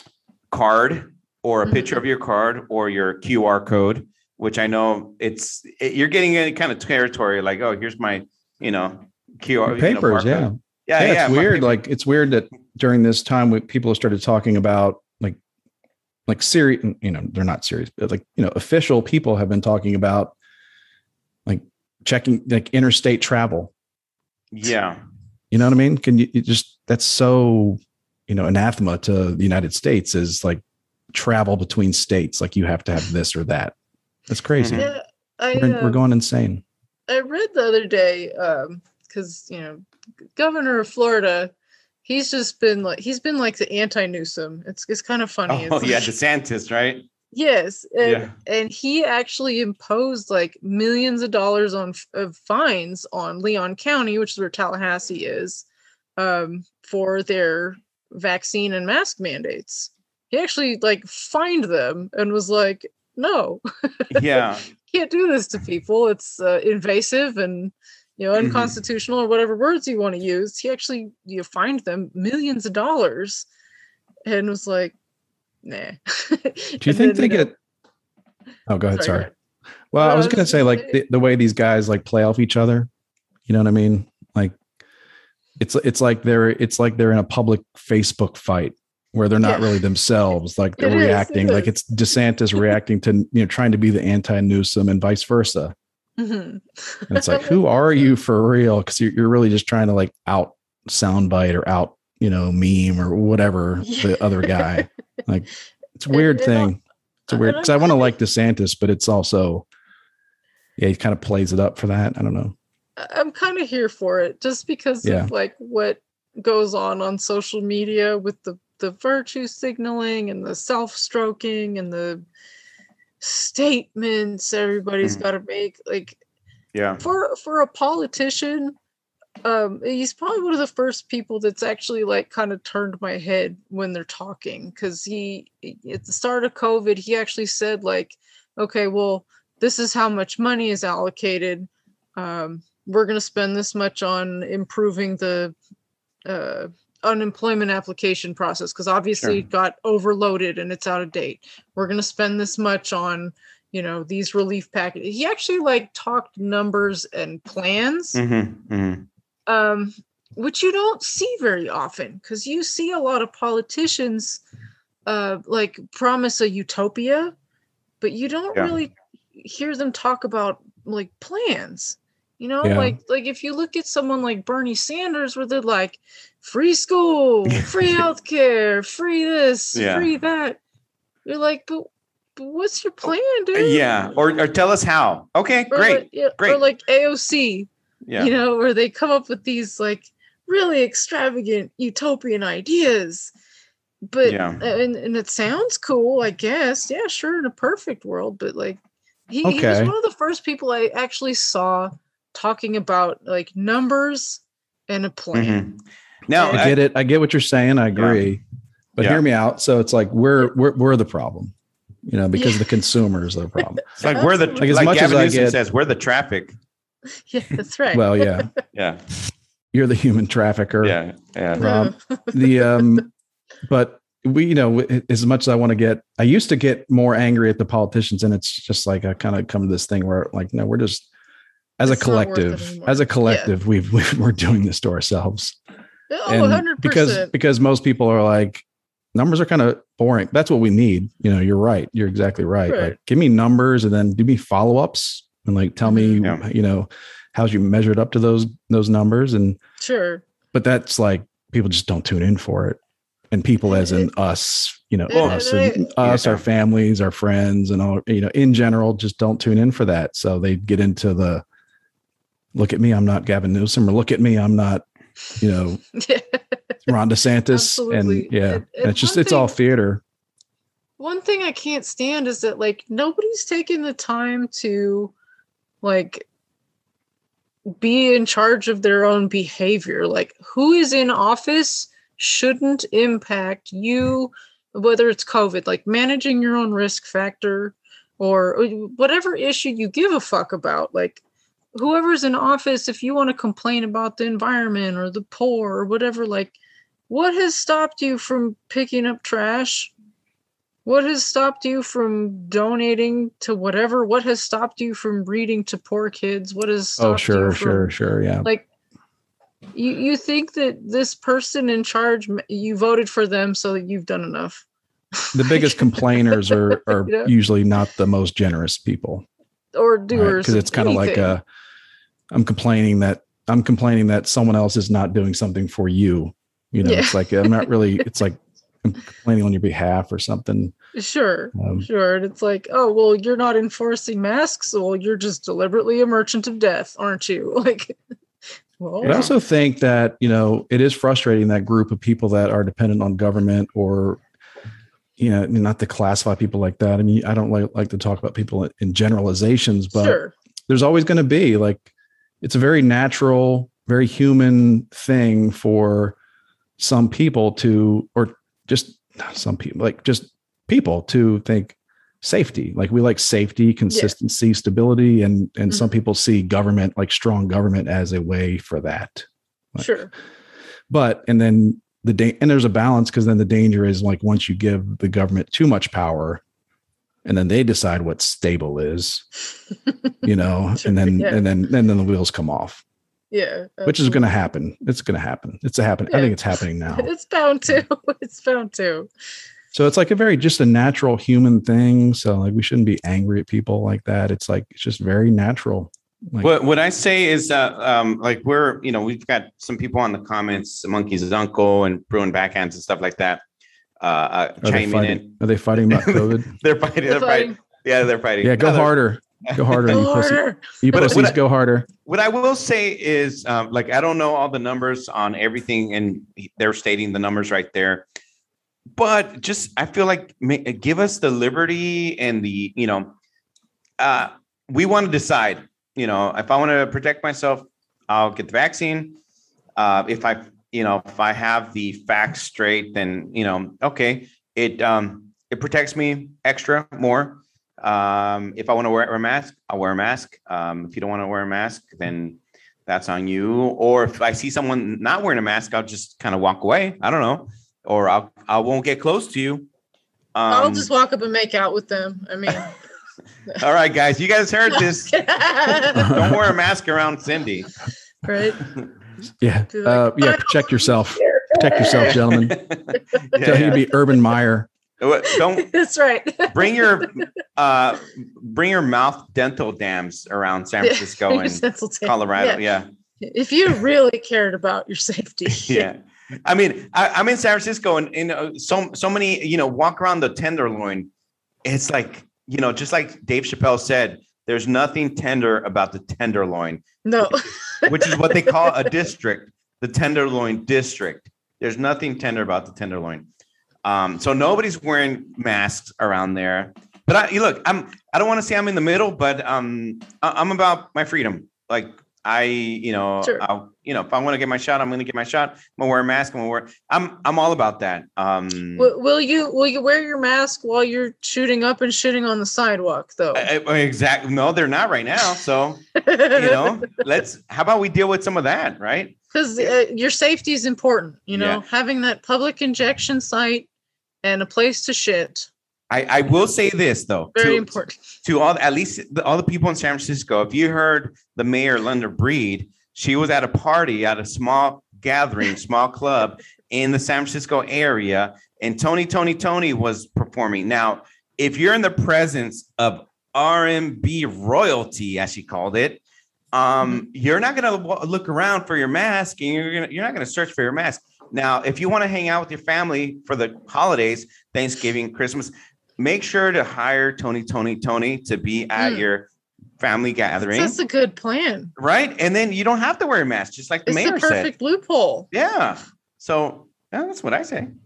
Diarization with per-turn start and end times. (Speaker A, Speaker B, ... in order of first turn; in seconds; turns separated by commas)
Speaker A: 0.5-11.8, Speaker B: 1.7-2.0, Speaker C: 9.7-15.4, Speaker C: 16.3-20.3, Speaker C: 21.5-23.7, Speaker A: 24.5-25.0, Speaker C: 25.5-30.6, Speaker C: 31.1-33.7, Speaker C: 34.3-34.9, Speaker A: 34.6-34.9, Speaker B: 34.7-36.0, Speaker C: 35.5-36.6, Speaker B: 37.1-41.5, Speaker B: 42.0-46.1, Speaker A: 45.5-47.1, Speaker B: 47.3-55.7, Speaker A: 48.0-48.3, Speaker B: 56.2-64.2, Speaker A: 64.1-64.7, Speaker B: 64.8-73.5, Speaker A: 68.4-68.8, Speaker B: 74.3-75.0, Speaker B: 75.6-77.5, Speaker C: 76.8-77.5, Speaker C: 78.7-79.3, Speaker B: 79.0-79.3, Speaker C: 79.9-82.9, Speaker B: 80.0-81.0, Speaker C: 83.5-84.5, Speaker C: 85.6-95.7, Speaker B: 89.4-89.8, Speaker B: 90.8-91.8, Speaker B: 96.2-97.8, Speaker C: 97.1-109.7, Speaker B: 103.8-104.7, Speaker B: 106.1-106.7, Speaker B: 107.3-108.1, Speaker C: 110.8-112.5, Speaker B: 113.0-122.2, Speaker C: 115.0-115.3, Speaker B: 123.2-126.2, Speaker A: 126.7-127.0, Speaker B: 127.0-128.8, Speaker B: 129.4-145.5, Speaker B: 146.3-158.2, Speaker A: 158.2-159.1, Speaker B: 159.5-164.4, Speaker B: 165.1-167.3, Speaker B: 168.0-180.6, Speaker C: 172.6-173.0, Speaker A: 177.5-178.0, Speaker A: 179.8-180.1, Speaker B: 181.2-184.1, Speaker A: 183.5-186.6, Speaker B: 185.7-193.3, Speaker A: 188.1-188.3, Speaker B: 194.1-198.8, Speaker A: 194.2-194.6, Speaker B: 199.3-205.6, Speaker C: 199.4-199.9, Speaker A: 205.3-206.8, Speaker B: 206.3-206.7, Speaker C: 206.5-208.4, Speaker A: 207.9-208.2, Speaker C: 209.0-211.5, Speaker C: 212.1-213.8, Speaker B: 212.3-212.7, Speaker B: 214.0-214.7, Speaker A: 214.0-216.6, Speaker C: 214.6-215.6, Speaker B: 217.3-218.5, Speaker C: 217.9-218.5, Speaker A: 218.7-219.0, Speaker C: 219.7-221.0, Speaker A: 220.8-221.7, Speaker B: 221.6-222.7, Speaker C: 221.6-223.1, Speaker C: 223.7-231.1, Speaker C: 231.8-235.6, Speaker B: 231.8-233.5, Speaker B: 236.1-237.3, Speaker C: 236.3-249.6, Speaker B: 242.7-242.9, Speaker B: 245.8-246.2, Speaker B: 249.8-250.2, Speaker C: 250.5-252.8, Speaker C: 253.3-261.4, Speaker B: 253.7-254.1, Speaker B: 255.1-255.9, Speaker A: 255.1-255.4, Speaker A: 256.0-256.4, Speaker C: 262.6-264.8, Speaker C: 265.4-265.8, Speaker B: 265.9-266.6, Speaker C: 266.9-270.0, Speaker B: 267.5-269.6, Speaker B: 271.0-275.1, Speaker B: 275.8-276.3, Speaker B: 277.7-291.2, Speaker B: 291.8-296.6, Speaker B: 297.1-299.9, Speaker B: 300.9-308.7, Speaker C: 307.0-308.5, Speaker B: 309.8-314.6, Speaker B: 315.2-317.3, Speaker C: 315.3-319.2, Speaker B: 319.8-321.4, Speaker C: 320.1-321.4, Speaker C: 322.3-330.8, Speaker B: 326.8-327.7, Speaker B: 330.9-338.0, Speaker C: 331.6-331.9, Speaker B: 338.8-339.3, Speaker A: 339.0-339.3, Speaker C: 339.0-344.2, Speaker C: 345.2-351.9, Speaker B: 349.9-350.3, Speaker C: 352.4-356.1, Speaker C: 356.8-369.9, Speaker B: 369.8-370.1, Speaker C: 370.9-376.4, Speaker C: 377.2-379.2, Speaker C: 380.2-382.8, Speaker B: 380.8-381.4, Speaker B: 383.3-384.2, Speaker C: 383.9-387.1, Speaker B: 386.1-386.4, Speaker B: 386.9-389.1, Speaker C: 389.7-396.5, Speaker A: 396.4-403.4, Speaker A: 404.0-410.1, Speaker C: 404.6-406.5, Speaker B: 407.1-407.6, Speaker C: 408.4-411.9, Speaker B: 409.9-411.2, Speaker A: 410.9-411.4, Speaker A: 412.1-418.1, Speaker A: 418.9-423.1, Speaker A: 424.0-429.2, Speaker A: 429.8-449.7, Speaker A: 450.4-450.9, Speaker B: 450.5-452.7, Speaker A: 453.5-457.7, Speaker B: 454.7-456.2, Speaker C: 455.9-456.4, Speaker B: 458.2-458.7, Speaker C: 459.4-462.6, Speaker B: 459.7-462.2, Speaker A: 462.3-463.9, Speaker B: 463.3-463.7, Speaker C: 463.4-464.7, Speaker A: 465.0-465.7, Speaker B: 465.3-467.1, Speaker A: 466.5-472.9, Speaker B: 470.8-472.6, Speaker B: 473.2-475.9, Speaker A: 475.5-481.1, Speaker A: 481.6-486.8, Speaker B: 487.1-488.9, Speaker A: 487.9-493.3, Speaker A: 493.9-508.9, Speaker B: 508.8-513.5, Speaker A: 513.4-519.7, Speaker B: 516.0-516.9, Speaker B: 519.3-523.7, Speaker A: 521.3-521.6, Speaker B: 524.2-525.5, Speaker A: 525.9-546.0, Speaker B: 527.4-528.0, Speaker A: 546.5-559.3, Speaker B: 558.8-559.0, Speaker A: 559.8-560.8, Speaker B: 560.4-561.7, Speaker A: 561.8-564.5, Speaker B: 563.9-565.3, Speaker A: 565.3-567.7